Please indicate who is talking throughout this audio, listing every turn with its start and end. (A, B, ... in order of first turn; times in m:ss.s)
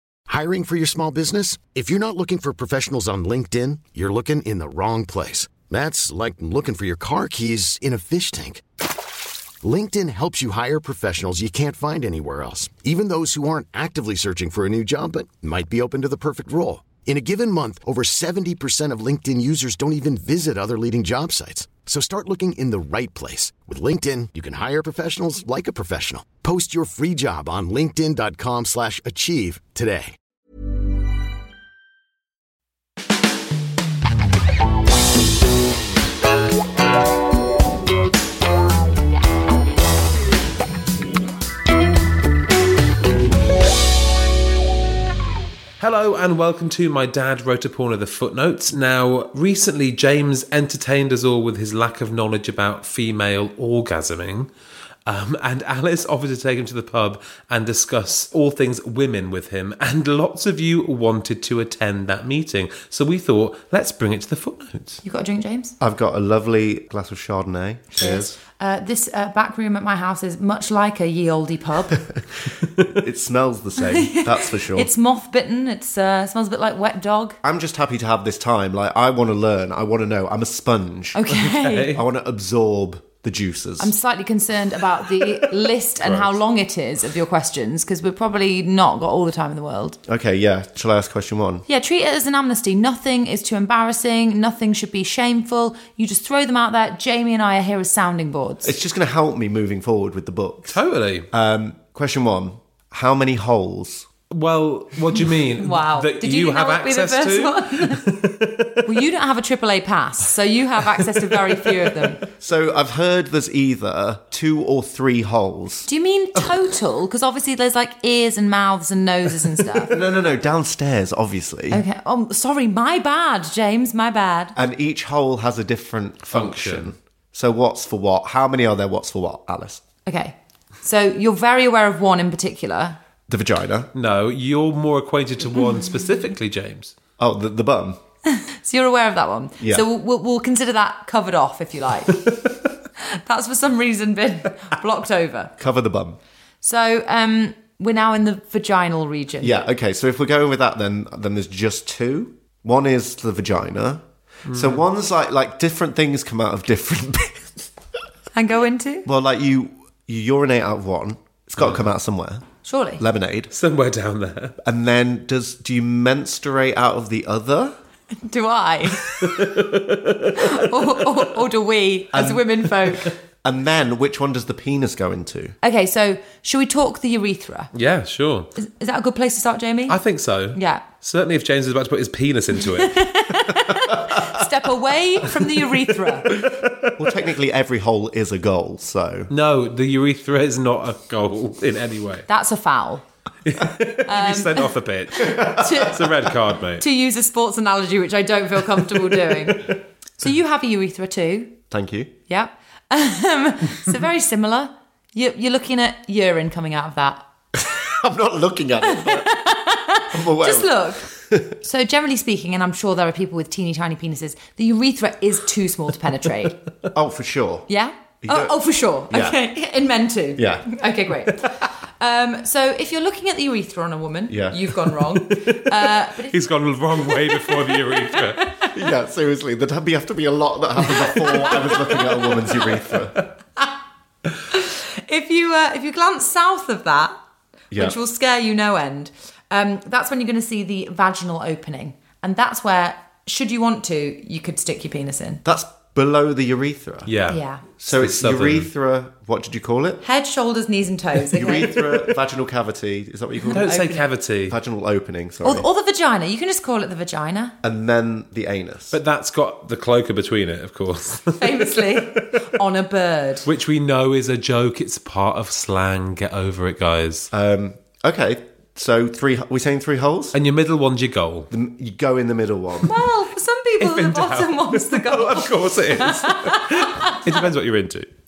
0:00.3-0:08.6 A
0:09.6-0:30.1 A
0:45.8-0:54.5 B
0:55.1-1:05.0 B
1:05.0-1:05.8 C
1:05.8-1:08.4 D
1:07.9-1:12.0 C
1:13.0-1:14.9 D
1:13.9-1:17.4 C
1:17.4-1:21.2 D
1:21.1-1:21.9 C
1:21.3-1:22.0 B
1:21.9-1:23.9 D
1:23.8-1:30.0 C
1:26.0-1:26.4 B
1:30.1-1:31.6 D
1:31.7-1:38.8 C
1:38.6-1:44.1 D
1:40.7-1:41.3 B
1:44.3-1:49.0 B
1:45.6-1:48.0 C
1:48.9-1:52.2 C
1:52.4-1:55.9 D
1:55.9-1:59.9 C
1:59.9-2:01.8 D
2:01.7-2:04.5 C
2:04.6-2:09.8 D
2:06.2-2:06.9 B
2:10.1-2:13.0 C
2:13.3-2:13.9 D
2:13.9-2:16.9 B
2:17.2-2:18.0 D
2:18.4-2:22.2 C
2:19.6-2:19.9 D
2:23.1-2:25.5 C
2:25.6-2:26.2 D
2:26.6-2:29.6 C
2:29.4-2:37.6 D
2:34.5-2:34.8 B
2:38.3-2:39.1 C
2:39.1-2:42.4 D
2:41.6-2:41.8 B
2:42.6-2:43.0 C
2:43.0-2:43.5 D
2:43.5-2:44.6 B
2:44.6-2:47.8 D
2:48.2-2:49.2 C
2:49.1-2:51.0 B
2:50.4-2:53.2 C
2:52.1-2:55.6 D
2:55.6-2:57.7 C
2:57.7-2:58.5 B
2:58.6-3:00.0 C
2:59.9-3:03.1 B
3:00.5-3:00.8 C
3:02.8-3:06.3 C
3:06.3-3:07.0 B
3:07.0-3:09.3 D
3:09.3-3:12.3 B
3:12.3-3:13.0 C
3:13.4-3:16.8 B
3:14.1-3:14.7 C
3:15.2-3:15.6 D
3:15.2-3:16.0 C
3:16.8-3:21.6 C
3:19.5-3:19.7 B
3:21.7-3:22.1 D
3:22.3-3:27.2 C
3:27.9-3:29.4 D
3:28.8-3:36.6 C
3:30.1-3:31.5 D
3:36.9-3:37.7 D
3:37.7-3:48.7 C
3:38.2-3:39.4 D
3:40.4-3:40.7 D
3:44.3-3:44.6 D
3:46.3-3:48.4 B
3:48.7-3:53.2 D
3:54.5-3:57.1 C
3:57.7-3:58.0 D
3:57.8-4:05.4 C
4:05.4-4:07.1 D
4:07.1-4:08.7 B
4:07.3-4:07.6 C
4:07.8-4:10.0 D
4:10.0-4:12.0 C
4:11.3-4:13.7 D
4:13.5-4:14.1 C
4:13.6-4:14.6 B
4:14.5-4:15.7 D
4:15.4-4:17.6 C
4:17.6-4:19.0 D
4:18.9-4:22.2 B
4:21.4-4:23.5 C
4:23.5-4:27.3 B
4:27.3-4:30.4 D
4:30.3-4:31.5 B
4:31.5-4:32.9 D
4:32.9-4:37.2 C
4:33.8-4:38.1 B